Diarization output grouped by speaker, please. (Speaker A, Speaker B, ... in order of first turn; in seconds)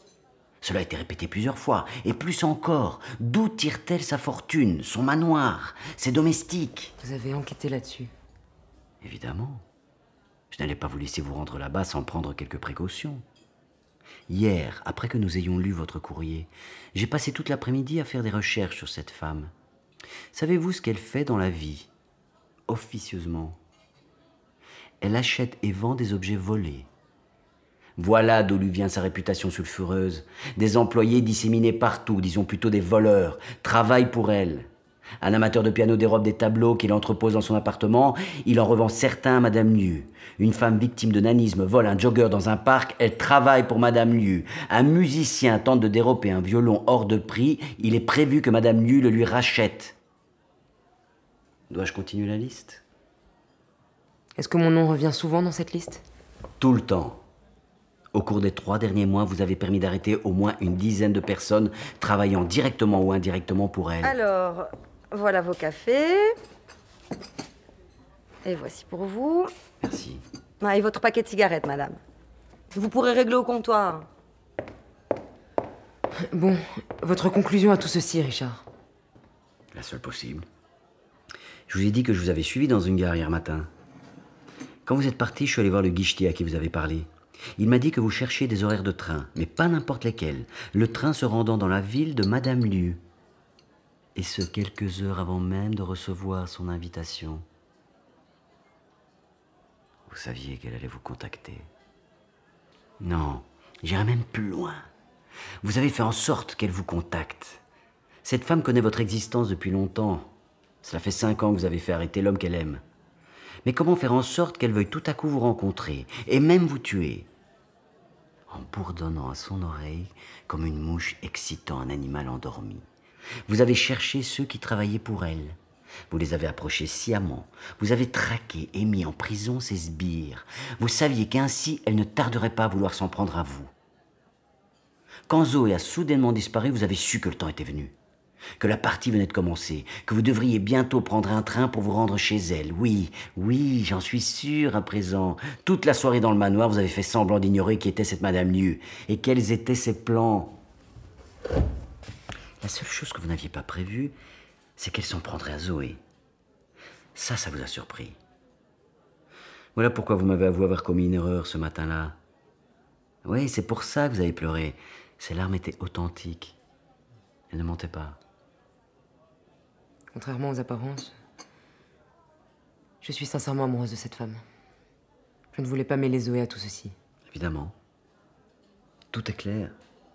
Speaker A: 0.6-6.9, 9.0-9.6, 10.5-13.2, 14.3-19.5, 20.3-21.9, 22.7-23.6, 25.0-26.9, 28.0-34.7, 35.2-50.0, 51.7-52.8, 56.6-57.2, 58.1-64.1, 69.8-70.2, 79.7-80.5, 81.7-83.7, 84.8-93.0, 94.1-97.4, 100.1-101.7, 103.0-104.9, 105.6-107.6, 108.2-112.8, 113.6-117.3, 118.5-122.9, 123.5-125.6, 126.1-133.7, 135.3-137.9, 138.6-150.6, 152.6-154.1, 154.8-156.0, 157.1-158.2, 159.8-162.2, 163.2-166.6, 167.5-168.2, 177.3-177.8, 179.1-179.8
Speaker B: 7.0-8.1, 54.4-56.0, 76.2-78.6, 170.1-171.2, 173.0-174.4, 175.5-176.9
Speaker C: 64.0-66.3, 68.4-69.5, 70.6-72.0, 72.7-74.1